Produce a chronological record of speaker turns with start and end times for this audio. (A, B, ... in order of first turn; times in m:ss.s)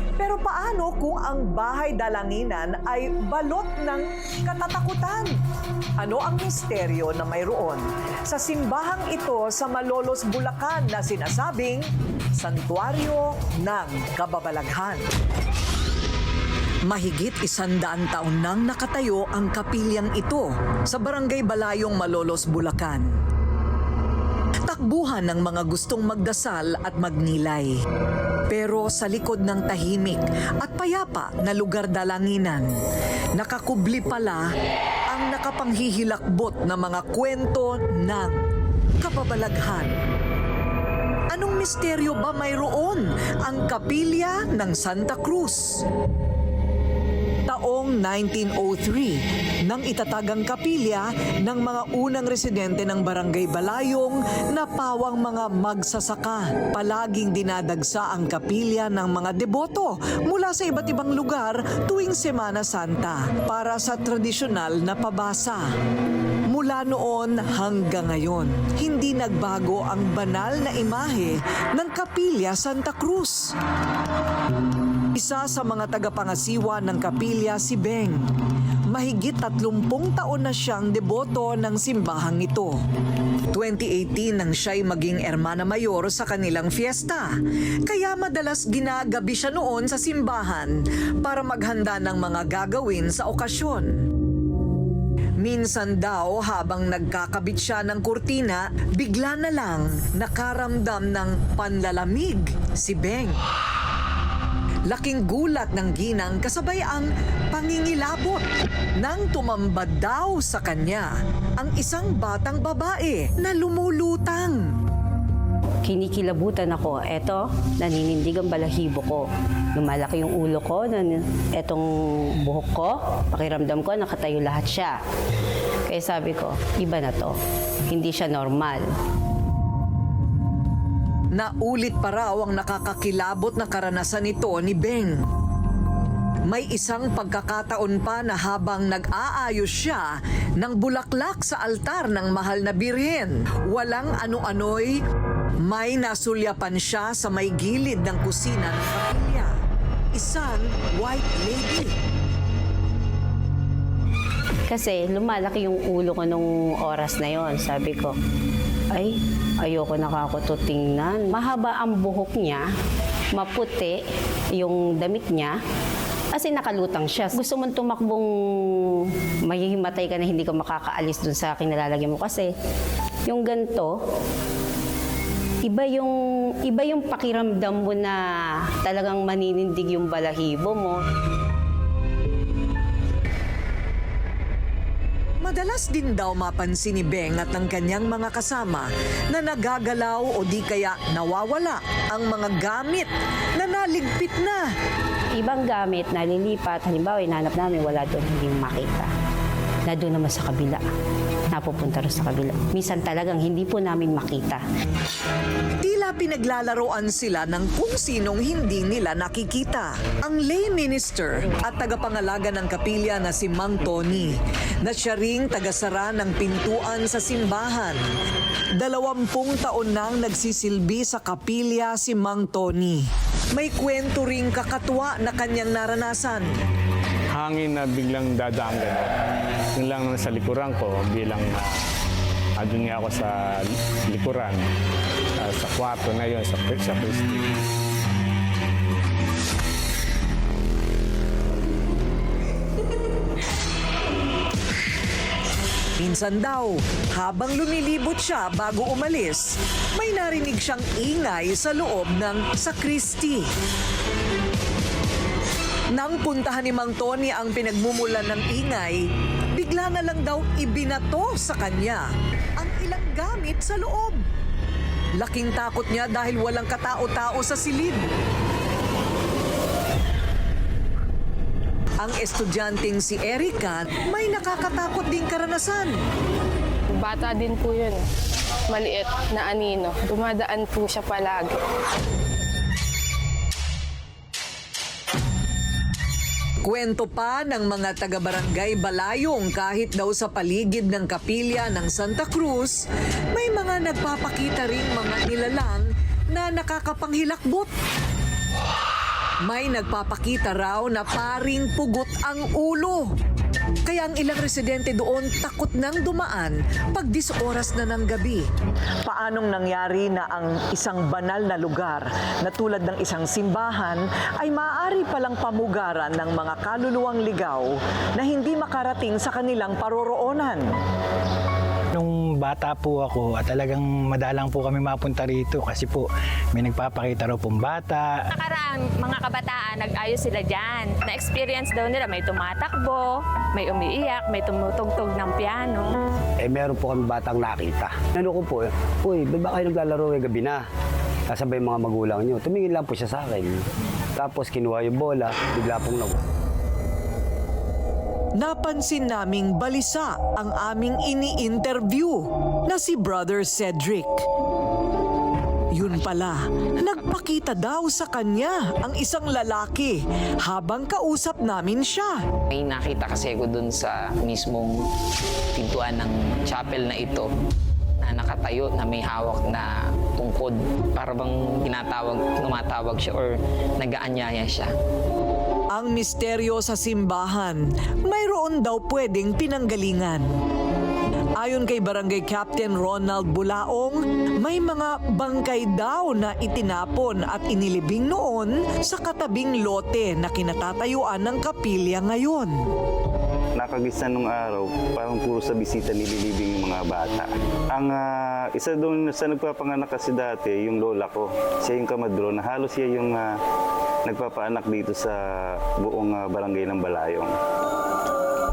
0:00.2-0:05.3 A
0:06.0-0:15.0 A
0:16.9-0:23.2 A
0:24.7-0:27.8 A
0:28.5-0:32.7 A
0:33.4-0:34.5 A
0:35.1-0:38.4 A
0:39.0-0:40.0 A
0:41.3-0:45.8 A
0:47.5-1:05.6 A
1:06.5-1:13.5 A
1:15.1-1:18.2 A
1:18.9-1:22.8 A
1:23.5-1:27.3 A
1:27.8-1:34.0 A
1:35.4-1:43.4 A
1:44.9-1:48.4 A
1:49.0-1:54.7 A
1:55.8-2:05.0 B
2:05.9-2:07.4 B
2:07.9-2:08.9 B
2:11.3-2:15.2 A
2:16.5-2:25.0 A
2:25.6-2:29.5 A
2:30.1-2:31.9 A
2:34.7-2:38.2 B
2:38.9-2:42.6 B
2:43.3-2:44.0 B
2:44.5-2:45.6 B
2:46.3-2:52.5 B
2:53.3-2:54.0 B
2:55.6-2:58.2 B
2:58.8-3:01.0 B
3:05.4-3:14.7 A
3:15.3-3:19.1 B
3:19.9-3:20.8 B
3:21.5-3:24.6 B
3:25.8-3:38.0 A
3:38.8-3:46.5 A
3:47.3-3:49.0 C
3:49.8-3:51.6 C
3:52.6-3:53.3 C
3:54.1-3:54.5 C
3:55.4-3:57.4 C
4:06.0-4:13.5 A
4:15.9-4:22.0 A
4:22.6-4:24.2 A
4:25.2-4:28.1 A
4:32.0-4:36.0 A
4:36.9-4:38.0 D
4:38.7-4:41.6 D
4:46.6-4:57.7 A
4:59.4-5:03.1 A
5:03.8-5:08.4 A
5:09.0-5:20.6 A
5:21.9-5:28.2 E
5:28.3-5:35.9 F
5:36.4-5:40.6 G
5:41.3-5:43.6 G
5:44.2-5:46.2 G
5:48.4-5:54.2 A
5:55.7-6:02.2 A
6:02.5-6:04.7 H
6:05.6-6:07.3 H
6:08.0-6:14.7 H
6:15.7-6:20.3 A
6:21.4-6:32.6 A
6:33.6-6:43.3 I
6:44.1-6:47.3 I